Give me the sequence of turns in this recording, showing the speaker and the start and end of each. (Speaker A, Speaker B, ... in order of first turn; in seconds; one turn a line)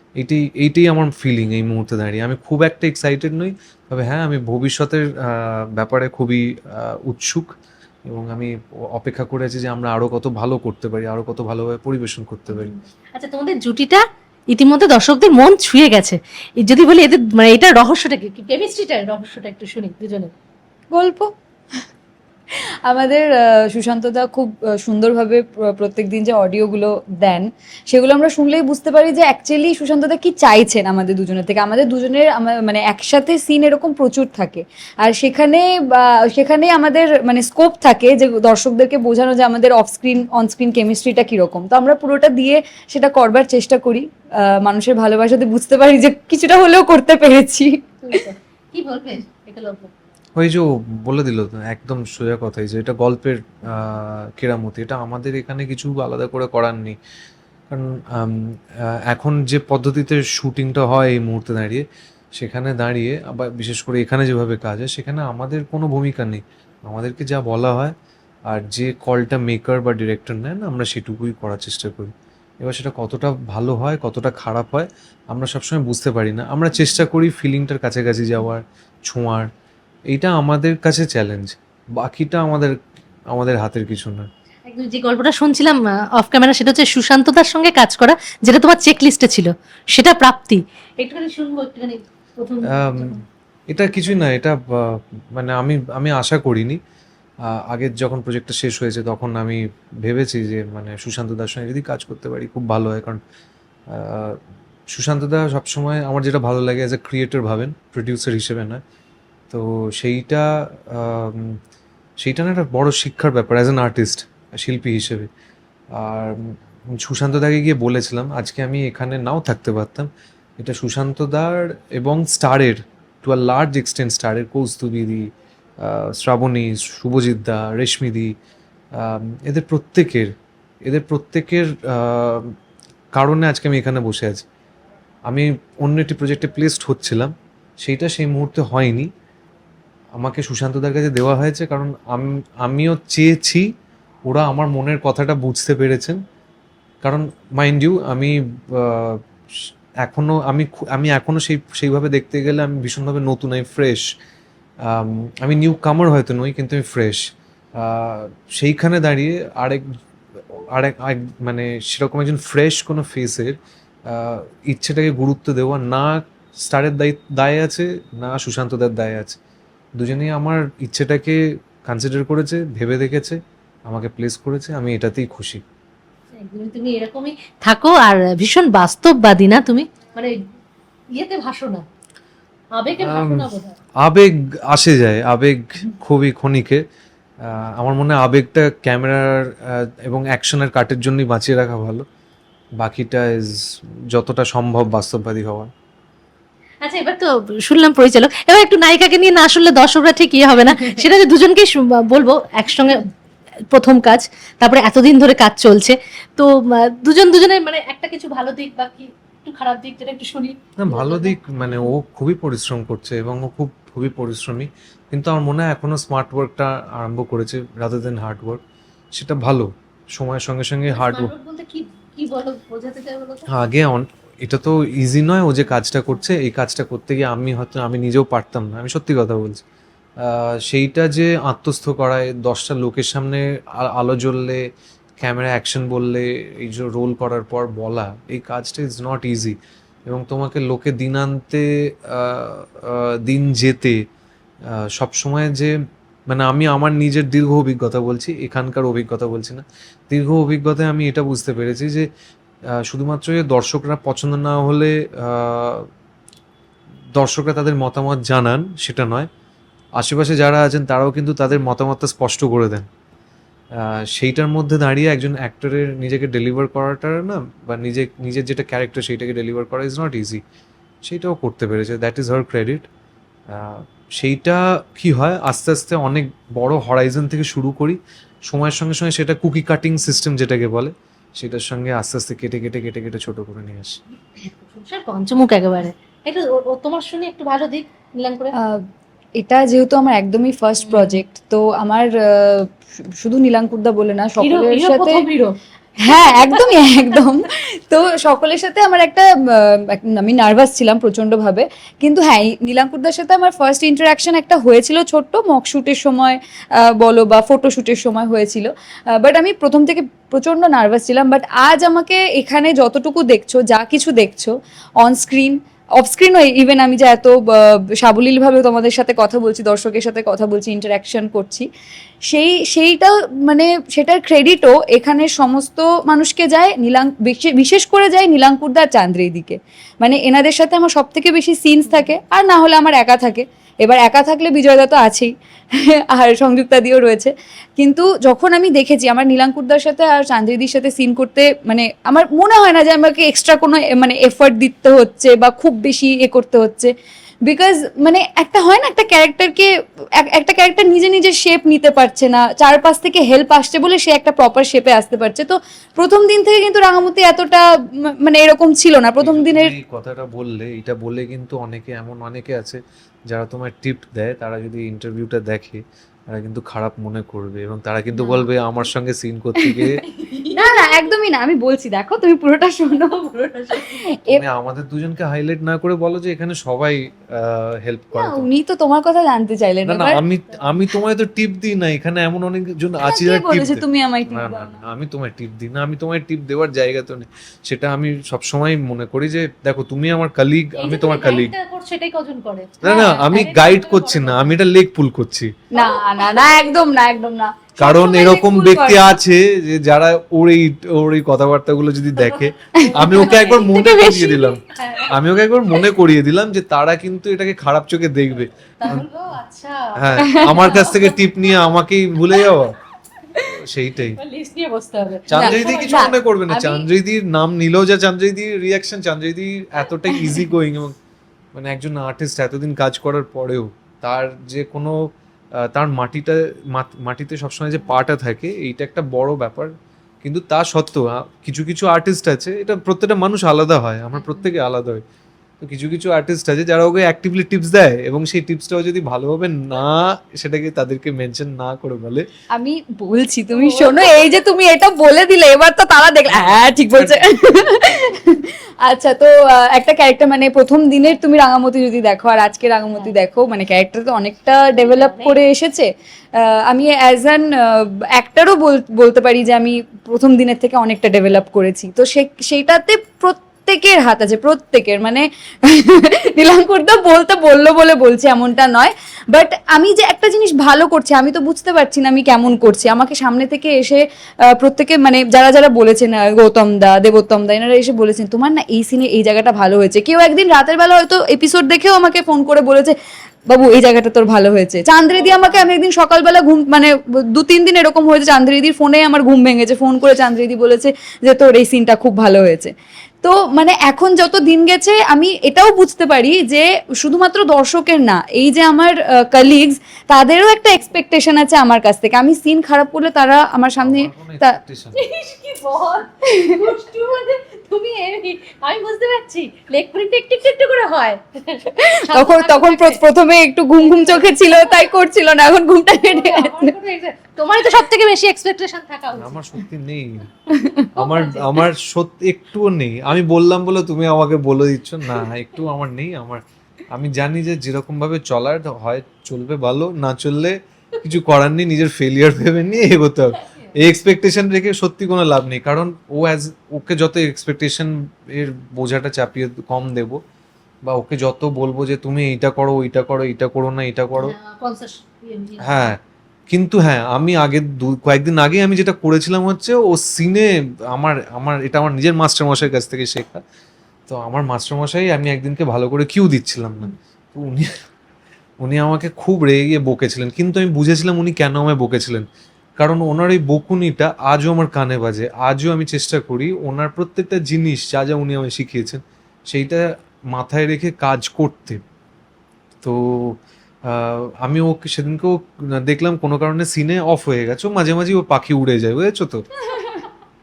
Speaker A: 0.2-7.5
Speaker A: 8.1-12.7
Speaker B: 12.5-20.3
Speaker C: 20.9-21.3
Speaker C: 22.9-48.2
Speaker B: 48.0-49.9
Speaker A: 50.4-57.0
Speaker A: 57.7-68.0
Speaker A: 68.5-79.5
Speaker A: 80.1-82.8
Speaker A: 83.3-84.3
Speaker B: 84.7-93.2
Speaker A: 92.7-93.2
Speaker A: 93.7-96.8
Speaker A: 97.5-103.2
Speaker A: 103.9-104.4
Speaker A: 104.9-108.8
Speaker A: 109.5-111.6
Speaker A: 112.2-115.3
Speaker A: 116.0-120.1
Speaker A: 120.6-125.3
Speaker A: 125.8-128.3
Speaker A: 129.0-130.3
Speaker A: 130.9-132.5
Speaker A: 133.1-134.4
Speaker A: 135.3-139.1
Speaker A: 140.2-143.6
Speaker A: 144.2-146.2
Speaker A: 147.0-154.0
Speaker A: 154.8-157.2
Speaker A: 157.8-159.8
Speaker A: 160.4-163.6
Speaker A: 164.1-169.4
Speaker A: 170.0-175.6
Speaker B: 176.4-180.4
Speaker B: 181.1-181.8
Speaker B: 182.8-183.8
Speaker A: 182.9-183.5
Speaker A: 184.0-186.8
Speaker A: 187.4-192.1
Speaker A: 192.8-193.6
Speaker A: 194.1-195.7
Speaker B: 196.8-203.1
Speaker B: 203.7-211.9
Speaker A: 210.8-218.6
Speaker A: 219.1-221.3
Speaker B: 220.9-223.5
Speaker A: 223.5-229.6
Speaker A: 230.2-234.6
Speaker A: 235.2-239.6
Speaker A: 240.1-244.0
Speaker A: 244.7-245.7
Speaker A: 246.3-252.1
Speaker A: 252.8-255.9
Speaker A: 257.2-259.3
Speaker A: 260.0-262.9
Speaker A: 263.8-270.4
Speaker A: 271.0-272.9
Speaker A: 273.5-284.0
Speaker B: 284.4-288.5
Speaker C: 289.4-292.7
Speaker B: 290.8-291.2
Speaker C: 293.2-295.2
Speaker B: 294.4-297.2
Speaker C: 296.0-321.7
Speaker C: 322.3-346.9
Speaker B: 331.9-332.1
Speaker C: 347.5-359.8
Speaker A: 359.2-370.0
Speaker B: 368.1-368.5
Speaker B: 370.1-371.1
Speaker C: 370.6-374.4
Speaker B: 373.3-373.9
Speaker A: 374.3-378.5
Speaker C: 378.1-380.2
Speaker A: 379.9-391.5
Speaker C: 383.0-384.8
Speaker B: 390.8-394.6
Speaker A: 392.8-395.5
Speaker C: 395.7-399.2
Speaker B: 395.8-396.8
Speaker A: 397.8-409.1
Speaker B: 402.1-405.9
Speaker C: 402.8-403.0
Speaker B: 408.8-411.6
Speaker A: 410.0-412.8
Speaker B: 412.3-412.6
Speaker A: 413.4-414.2
Speaker B: 414.1-416.9
Speaker A: 415.3-421.0
Speaker C: 415.4-416.1
Speaker A: 421.5-425.0
Speaker A: 425.6-429.7
Speaker A: 430.2-435.0
Speaker B: 434.1-434.5
Speaker A: 435.6-442.3
Speaker C: 442.6-482.9
Speaker B: 443.5-444.2
Speaker A: 446.3-447.9
Speaker B: 454.7-455.4
Speaker C: 483.5-492.7
Speaker B: 485.1-485.7
Speaker C: 493.2-504.6
Speaker A: 503.8-505.0
Speaker B: 504.9-513.0
Speaker C: 506.4-506.6
Speaker C: 511.9-516.8
Speaker B: 513.8-514.9
Speaker B: 516.0-519.6
Speaker A: 519.1-520.3
Speaker C: 520.5-520.9
Speaker B: 521.0-521.6
Speaker A: 521.0-540.2
Speaker B: 533.5-533.7
Speaker A: 540.9-544.4
Speaker B: 544.2-545.9
Speaker A: 545.6-546.0
Speaker A: 546.5-553.4
Speaker A: 554.1-557.7
Speaker A: 558.6-562.3
Speaker A: 562.8-571.8
Speaker A: 572.8-579.5
Speaker C: 579.7-580.0